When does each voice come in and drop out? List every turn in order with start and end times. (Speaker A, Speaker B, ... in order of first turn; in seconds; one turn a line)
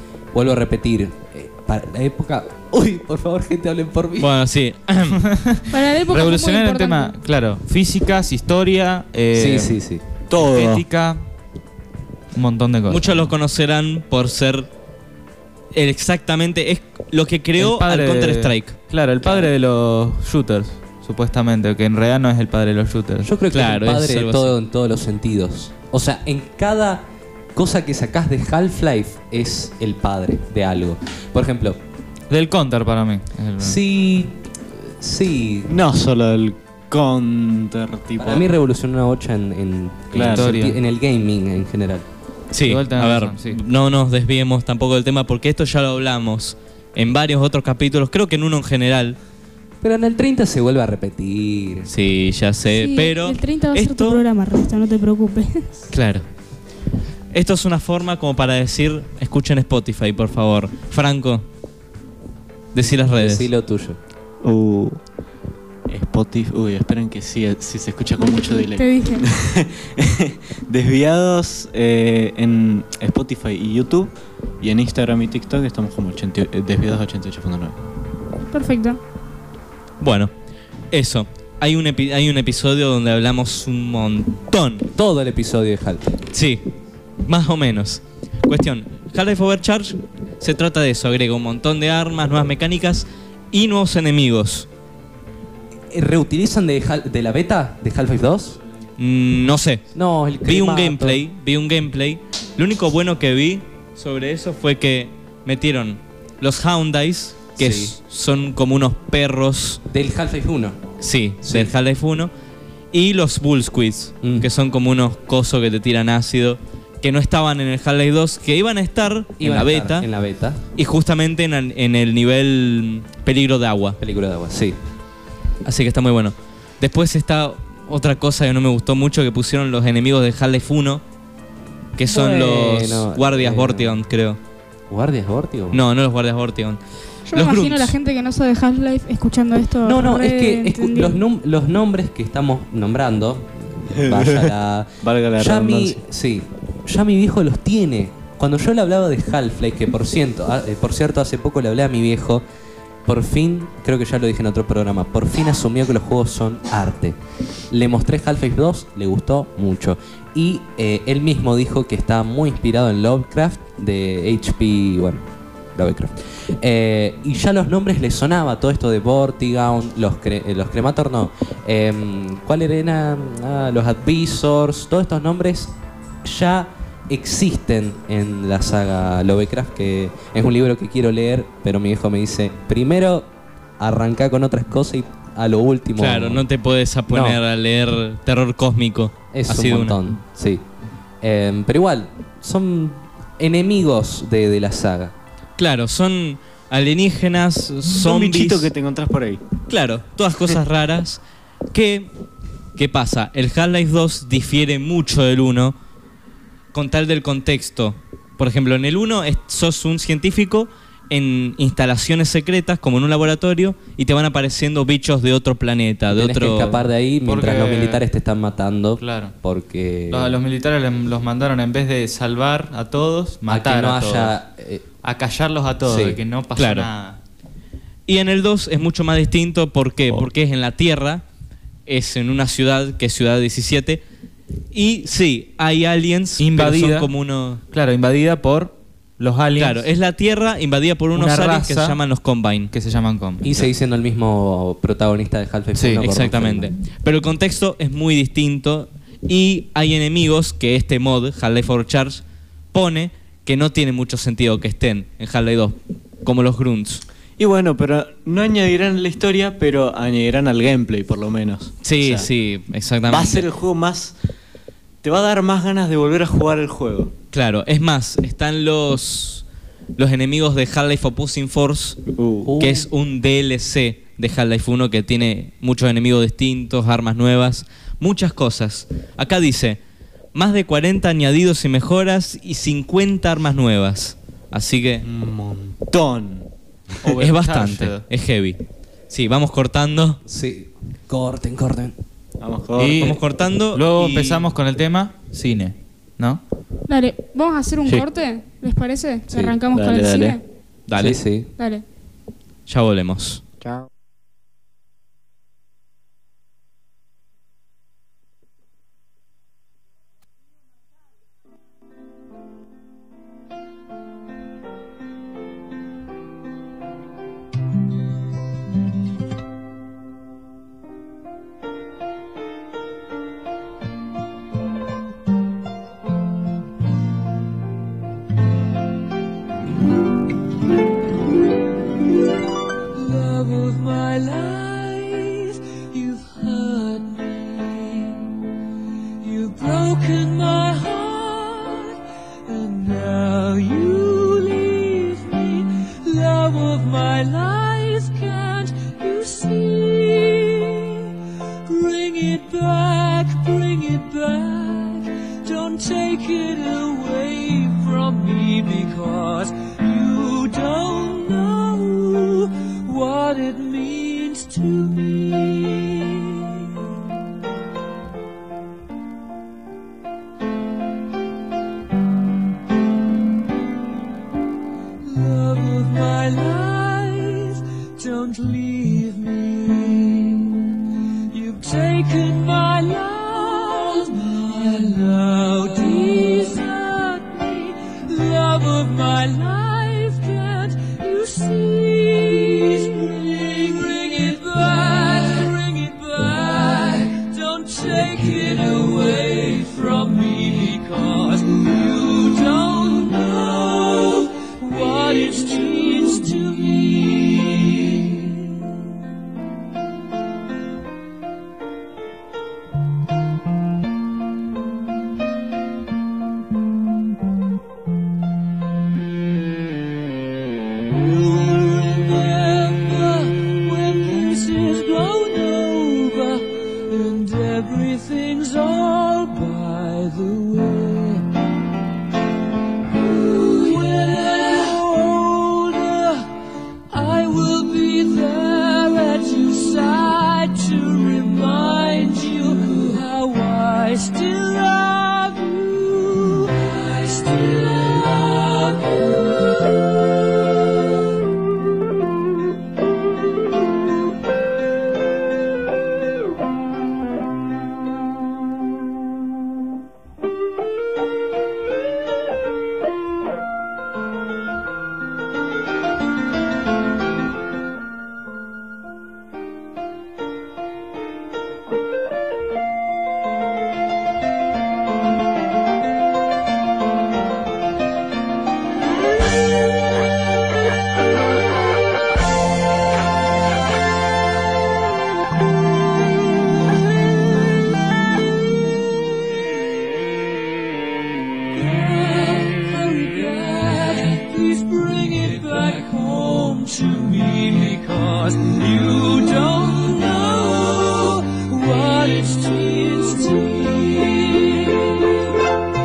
Speaker A: 0.3-4.3
Speaker B: 4.2-5.2
Speaker C: 5.1-9.8
Speaker D: 5.7-7.2
Speaker A: 9.3-10.0
Speaker E: 10.3-10.9
Speaker C: 10.4-11.2
Speaker C: 12.3-13.3
Speaker B: 12.9-14.7
Speaker B: 15.7-18.8
Speaker C: 17.6-23.3
Speaker A: 23.2-31.8
Speaker B: 23.5-24.5
Speaker C: 32.3-33.8
Speaker A: 33.6-35.7
Speaker E: 35.7-38.5
Speaker A: 38.2-42.1
Speaker E: 40.1-40.5
Speaker C: 40.3-40.8
Speaker B: 42.5-49.2
Speaker C: 42.6-43.6
Speaker A: 49.8-51.9
Speaker B: 51.9-54.2
Speaker D: 52.8-55.7
Speaker B: 55.9-56.2
Speaker B: 57.3-61.4
Speaker B: 62.7-63.5
Speaker A: 63.1-64.0
Speaker E: 64.4-65.0
Speaker E: 65.9-77.8
Speaker D: 68.6-69.2
Speaker D: 78.5-79.0
Speaker B: 80.0-80.3
Speaker B: 80.9-84.9
Speaker A: 85.0-86.2
Speaker B: 86.3-86.6
Speaker B: 87.2-94.7
Speaker A: 95.9-98.6
Speaker B: 99.0-99.8
Speaker A: 99.9-101.2
Speaker B: 100.5-109.8
Speaker A: 107.6-108.0
Speaker A: 109.9-110.8
Speaker B: 111.0-112.3
Speaker A: 111.4-111.7
Speaker B: 112.9-120.1
Speaker A: 114.2-114.5
Speaker A: 119.4-120.6
Speaker B: 120.8-124.0
Speaker A: 124.0-124.8
Speaker B: 125.7-131.0
Speaker B: 132.0-134.4
Speaker A: 132.1-134.0
Speaker A: 134.9-135.8
Speaker B: 135.7-136.8
Speaker D: 137.3-141.2
Speaker B: 137.3-137.9
Speaker A: 139.8-152.4
Speaker E: 143.9-146.0
Speaker A: 153.1-157.2
Speaker A: 157.7-165.2
Speaker A: 165.8-175.7
Speaker A: 176.2-186.5
Speaker B: 186.0-190.0
Speaker A: 187.1-187.4
Speaker A: 189.3-190.6
Speaker A: 191.2-195.1
Speaker B: 195.6-198.7
Speaker E: 197.8-199.4
Speaker B: 199.7-201.2
Speaker B: 201.7-202.1
Speaker B: 202.8-205.8
Speaker B: 206.7-216.8
Speaker A: 216.1-220.4
Speaker C: 217.2-218.0
Speaker C: 219.0-219.3
Speaker C: 220.1-224.4
Speaker A: 223.5-224.8
Speaker C: 225.0-227.2
Speaker A: 225.8-226.2
Speaker B: 226.6-226.9
Speaker B: 228.1-231.2
Speaker B: 231.9-234.0
Speaker B: 234.7-237.6
Speaker C: 236.4-237.1
Speaker C: 237.7-239.8
Speaker B: 239.6-242.7
Speaker C: 241.2-242.0
Speaker C: 242.7-243.7
Speaker A: 243.4-246.7
Speaker B: 246.0-257.0
Speaker E: 257.4-262.3
Speaker B: 261.8-263.5
Speaker E: 263.1-264.1
Speaker E: 265.0-267.1
Speaker B: 267.3-269.4
Speaker B: 270.0-272.0
Speaker E: 272.1-272.5
Speaker A: 272.4-272.9
Speaker B: 272.6-279.8
Speaker B: 280.3-285.1
Speaker E: 285.0-286.5
Speaker C: 287.0-288.1
Speaker B: 287.2-288.6
Speaker B: 289.1-290.2
Speaker A: 290.3-291.9
Speaker E: 292.4-293.1
Speaker C: 292.8-293.2
Speaker B: 292.9-294.5
Speaker C: 293.7-296.4
Speaker D: 296.9-300.4
Speaker A: 299.3-299.6
Speaker E: 299.7-300.4
Speaker B: 300.9-301.2
Speaker A: 301.0-301.5
Speaker D: 301.6-301.8
Speaker B: 302.7-303.4
Speaker F: 332.9-338.3
Speaker F: 339.2-351.1
Speaker F: 351.7-366.8
Speaker F: 375.0-380.7
Speaker F: 381.3-408.7
Speaker F: 420.9-431.3
Speaker F: 432.9-436.3
Speaker F: 436.9-450.7
Speaker F: 491.5-505.4